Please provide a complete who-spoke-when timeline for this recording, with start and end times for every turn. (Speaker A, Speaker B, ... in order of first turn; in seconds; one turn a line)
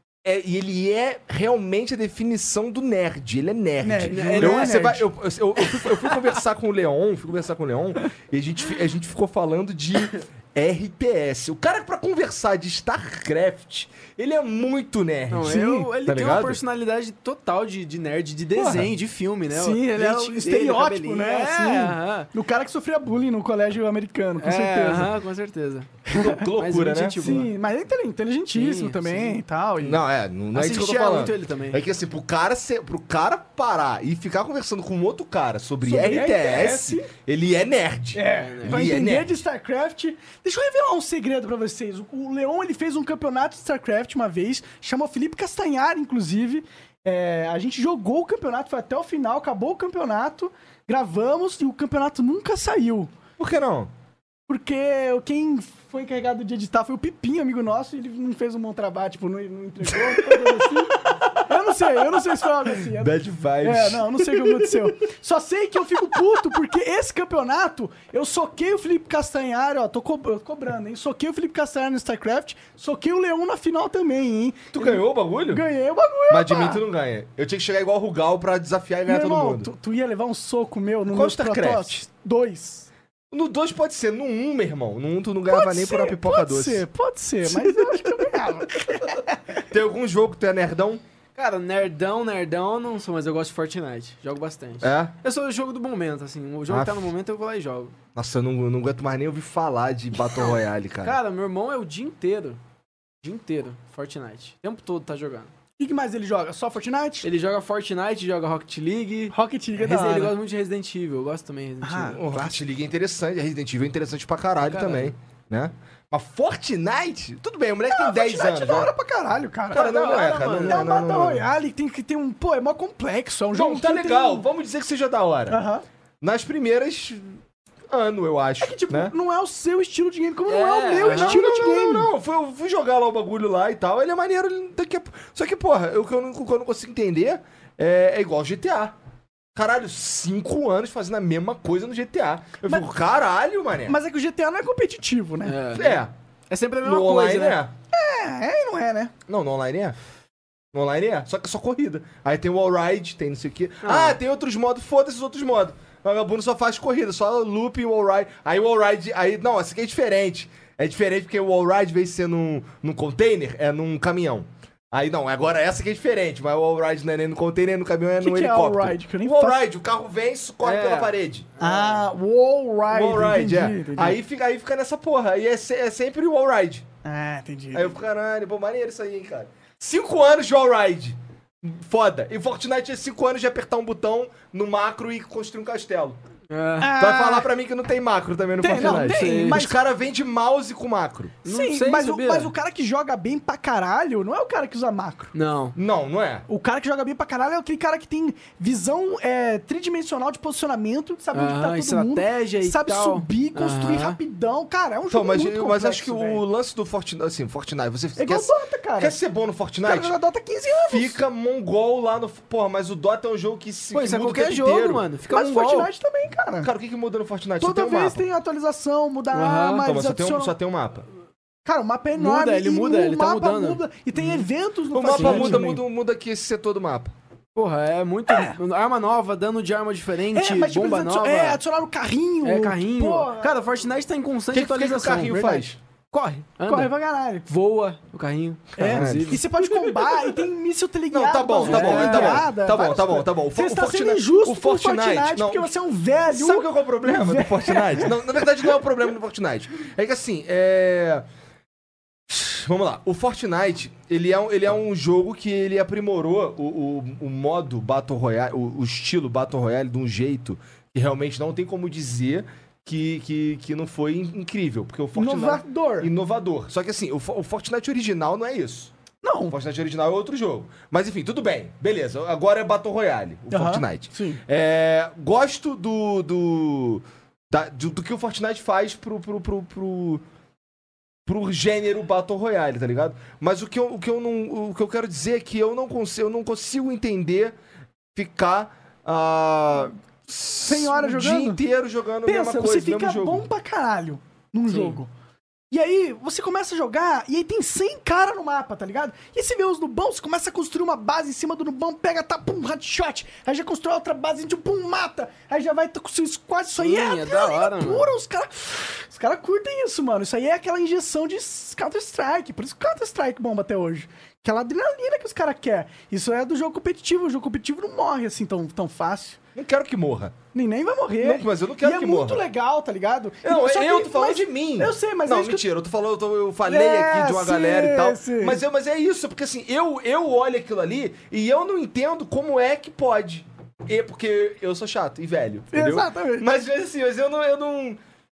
Speaker A: 0.2-16.6
Speaker B: 3.8-5.0
Speaker C: 4.1-4.9
Speaker C: 15.3-22.3
Speaker B: 15.4-15.9
Speaker B: 18.6-18.8
Speaker B: 19.5-25.1
Speaker C: 24.4-27.5
Speaker A: 26.1-27.4
Speaker B: 26.1-26.4
Speaker B: 27.1-30.0
Speaker C: 28.5-29.4
Speaker A: 29.8-39.3
Speaker C: 30.5-31.8
Speaker B: 35.8-37.1
Speaker B: 38.1-53.1
Speaker C: 38.2-38.9
Speaker A: 53.4-53.9
Speaker B: 54.5-76.8
Speaker A: 59.9-60.4
Speaker A: 62.9-64.9
Speaker A: 74.7-75.6
Speaker A: 76.3-79.7
Speaker B: 79.1-82.9
Speaker A: 81.1-82.0
Speaker A: 83.3-86.9
Speaker B: 85.5-89.5
Speaker A: 87.5-88.1
Speaker A: 89.7-91.0
Speaker C: 91.3-97.9
Speaker A: 94.8-95.1
Speaker A: 96.7-97.1
Speaker A: 98.1-101.2
Speaker C: 101.0-102.6
Speaker C: 103.2-105.5
Speaker B: 105.8-107.3
Speaker C: 107.2-112.2
Speaker B: 109.3-110.3
Speaker B: 111.8-112.6
Speaker A: 112.1-118.9
Speaker C: 114.6-115.1
Speaker B: 117.9-124.4
Speaker A: 119.7-121.4
Speaker C: 119.7-120.5
Speaker A: 123.5-125.6
Speaker B: 125.5-125.8
Speaker A: 126.2-127.4
Speaker A: 127.9-129.1
Speaker B: 128.6-132.1
Speaker C: 130.5-131.4
Speaker A: 131.0-138.9
Speaker A: 139.5-144.0
Speaker B: 143.9-145.6
Speaker C: 145.4-147.6
Speaker A: 145.7-146.1
Speaker A: 146.8-147.7
Speaker B: 147.9-149.1
Speaker A: 149.3-149.9
Speaker A: 150.7-171.5
Speaker C: 153.8-154.2
Speaker B: 168.2-169.6
Speaker C: 170.6-172.0
Speaker B: 171.6-174.2
Speaker A: 172.9-176.8
Speaker B: 177.0-177.9
Speaker A: 177.7-186.2
Speaker C: 186.5-187.0
Speaker B: 186.8-187.5
Speaker A: 186.9-191.4
Speaker B: 188.6-189.8
Speaker C: 188.8-189.6
Speaker C: 191.4-192.5
Speaker B: 191.4-195.3
Speaker C: 195.3-195.8
Speaker A: 195.8-196.5
Speaker B: 196.5-206.4
Speaker C: 201.3-204.2
Speaker A: 205.1-210.1
Speaker B: 208.2-209.2
Speaker B: 209.8-211.2
Speaker A: 210.9-215.1
Speaker C: 213.9-215.9
Speaker B: 215.3-216.7
Speaker A: 216.6-218.2
Speaker B: 217.6-220.6
Speaker C: 219.3-219.9
Speaker A: 219.8-221.1
Speaker B: 221.6-225.8
Speaker C: 222.1-224.5
Speaker A: 224.9-227.1
Speaker C: 225.1-225.6
Speaker C: 227.5-231.6
Speaker B: 230.3-233.6
Speaker C: 232.4-236.9
Speaker A: 234.5-235.8
Speaker B: 236.7-237.4
Speaker C: 237.4-239.4
Speaker B: 238.8-248.2
Speaker A: 238.8-239.5
Speaker A: 241.1-245.7
Speaker C: 241.6-242.5
Speaker A: 246.3-251.2
Speaker A: 252.3-268.9
Speaker B: 265.1-266.1
Speaker B: 269.2-269.6
Speaker A: 269.5-280.2
Speaker B: 273.5-274.4
Speaker A: 281.2-287.6
Speaker A: 288.1-293.4
Speaker B: 290.6-291.6
Speaker B: 292.2-295.1
Speaker C: 294.7-295.0
Speaker B: 295.7-319.4
Speaker C: 306.8-308.1
Speaker A: 319.5-320.4
Speaker B: 320.5-325.7
Speaker A: 321.2-322.4
Speaker A: 323.4-338.0
Speaker B: 326.6-328.6
Speaker B: 335.7-336.5